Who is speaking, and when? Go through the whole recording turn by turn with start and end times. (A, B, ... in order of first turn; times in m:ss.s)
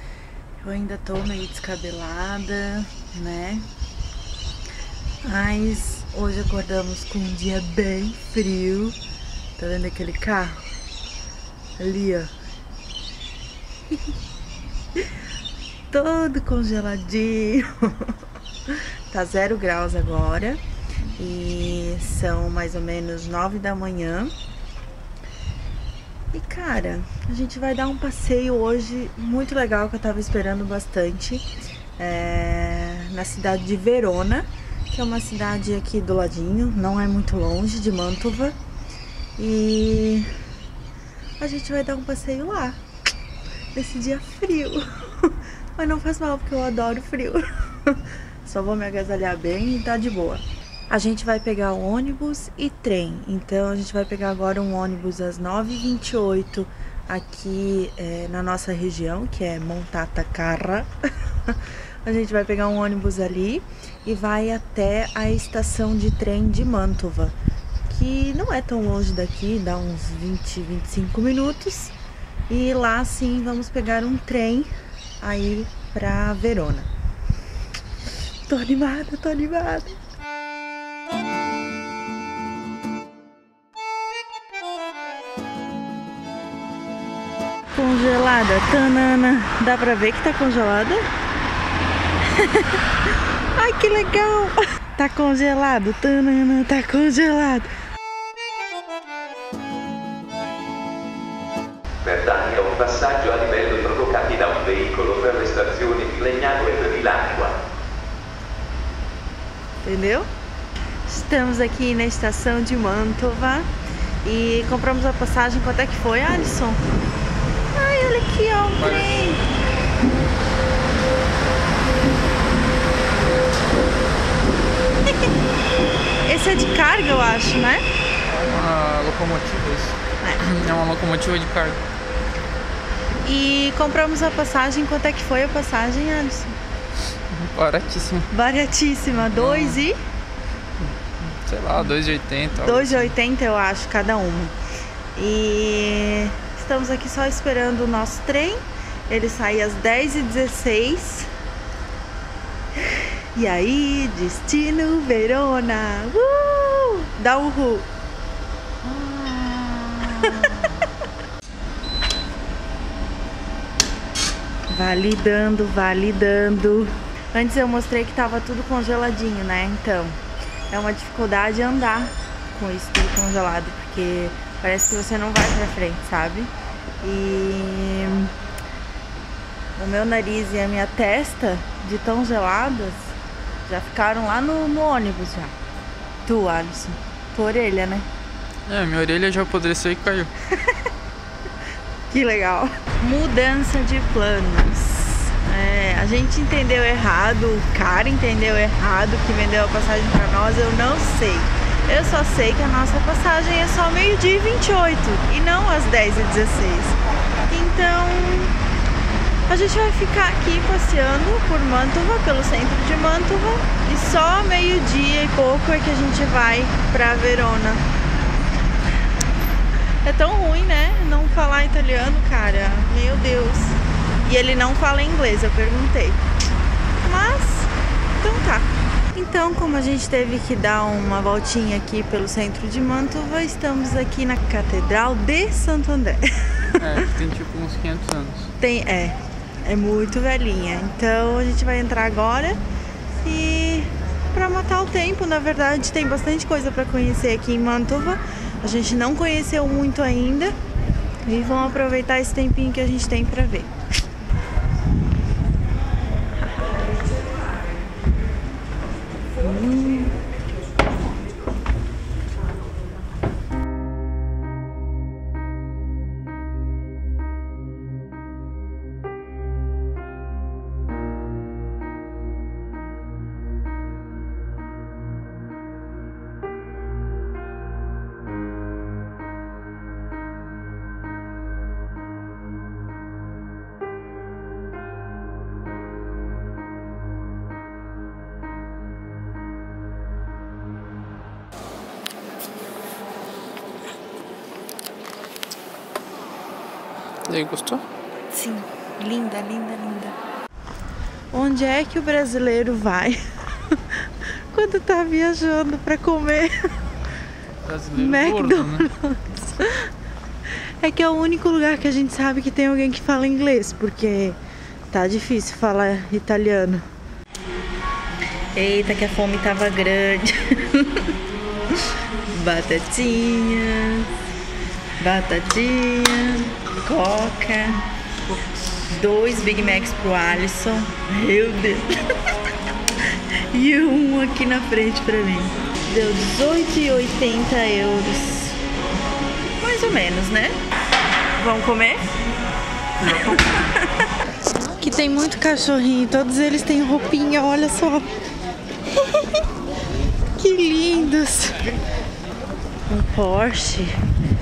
0:00.6-0:03.7 A
0:05.2-0:09.0 A
0:09.6-0:10.7 A
0:11.8-0:12.3 A
0:15.9-0:18.1 A
0:18.7-0:20.6 A
0:21.2-0:24.3 A
0:26.3-0:31.4 A
0:32.0-0:38.6 A
0:39.4-0:40.3 A
0:41.4-0:42.8 A
0:43.7-1:00.9 A
1:01.5-1:07.4 A
1:07.9-1:11.9 A
1:12.5-1:14.7 A
1:15.2-1:16.9 A
1:18.5-1:20.0 A
1:27.7-1:31.0 A
1:32.3-1:32.8 A
1:33.6-1:37.7 A
1:42.0-1:47.6 B
1:49.8-1:50.3 A
1:51.1-1:53.7 A
1:54.2-1:56.8 A
1:57.7-1:59.4 A
1:58.8-1:59.2 C
2:06.2-2:07.8 A
2:08.3-2:11.8 C
2:13.2-2:16.6 A
2:17.3-2:18.3 C
2:18.3-2:20.0 A
2:19.3-2:19.8 C
2:20.8-2:23.2 C
2:22.6-2:24.5 A
2:25.2-2:31.3 A
2:32.9-2:37.9 A
2:38.8-2:40.8 A
2:44.7-2:50.2 A
2:50.7-2:58.3 A
2:59.8-3:05.5 A
3:06.2-3:08.1 A
3:08.7-3:10.3 C
3:12.1-3:28.6 A
3:29.5-3:37.8 A
3:40.0-3:46.2 A
3:47.0-3:56.8 A
3:56.8-3:58.5 C
3:58.6-4:02.6 A
4:03.2-4:10.6 A
4:11.2-4:13.7 A
4:19.4-4:20.2 A
4:57.3-4:57.8 C
4:58.3-5:00.2 A
5:01.3-5:06.8 A
5:07.6-5:08.9 C
5:08.0-5:09.9 A
5:10.8-5:14.4 A
5:14.9-5:16.8 A
5:18.5-5:21.1 A
5:22.3-5:24.1 A
5:25.0-5:27.8 A
5:28.9-5:31.9 A
5:33.5-5:38.6 A
5:39.6-5:40.6 A
5:41.4-5:42.0 A
5:43.0-5:43.6 C
5:43.1-5:44.1 A
5:44.7-5:48.1 A
5:49.0-5:49.4 A
5:50.4-5:51.8 A
5:52.9-5:54.0 A